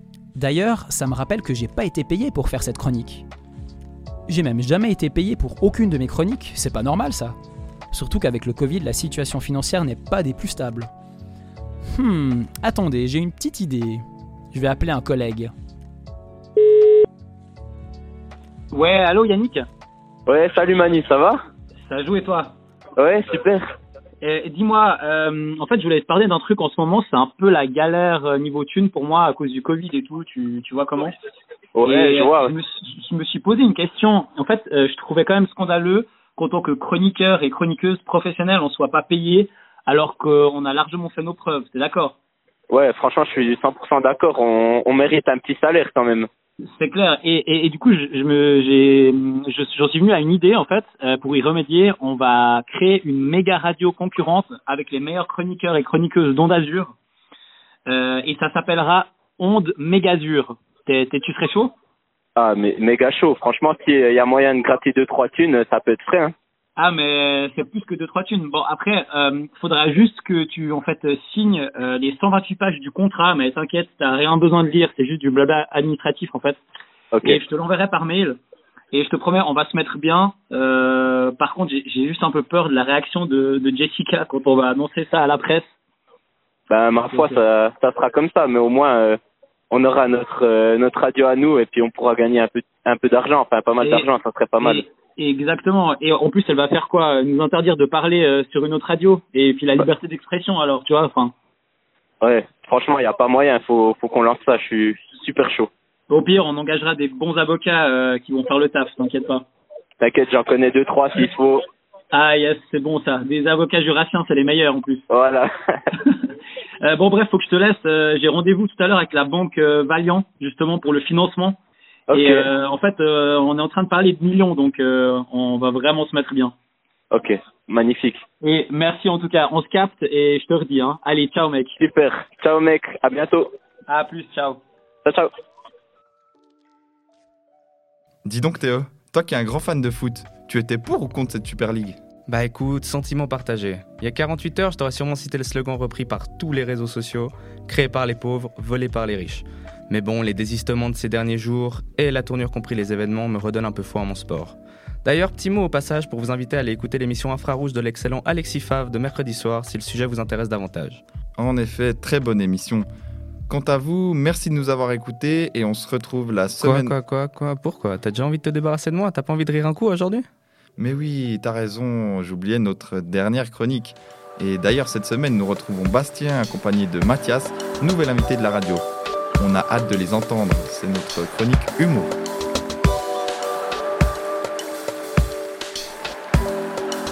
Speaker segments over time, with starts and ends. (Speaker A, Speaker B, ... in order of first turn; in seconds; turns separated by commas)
Speaker A: 0.3-3.2, Speaker A: 4.3-7.4, Speaker A: 7.9-10.9, Speaker A: 11.9-15.5, Speaker B: 18.7-19.7, Speaker C: 20.3-21.4, Speaker B: 21.9-22.6, Speaker C: 23.0-23.7, Speaker B: 24.2-31.1, Speaker C: 31.8-32.5, Speaker B: 31.8-42.2, Speaker C: 42.7-46.3, Speaker B: 46.8-56.9, Speaker B: 57.9-61.7, Speaker C: 62.4-66.3, Speaker B: 66.8-76.6, Speaker C: 77.1-77.4, Speaker B: 77.2-78.4, Speaker B: 78.9-85.7, Speaker C: 86.7-89.2, Speaker B: 87.1-87.4, Speaker C: 89.7-94.8, Speaker B: 94.6-101.3, Speaker C: 102.2-105.7, Speaker B: 106.1-109.5, Speaker C: 110.0-111.6, Speaker B: 112.1-115.0, Speaker C: 115.1-115.5, Speaker B: 116.8-121.6, Speaker C: 122.1-122.5, Speaker B: 122.1-126.5, Speaker C: 127.1-128.2, Speaker B: 128.4-131.8, Speaker C: 131.8-133.5, Speaker B: 133.9-134.6, Speaker C: 135.1-135.3, Speaker D: 138.2-142.0, Speaker E: 142.3-161.0, Speaker D: 161.4-162.9, Speaker D: 163.5-166.9, Speaker E: 166.6-170.3, Speaker D: 170.8-178.8, Speaker D: 179.4-182.1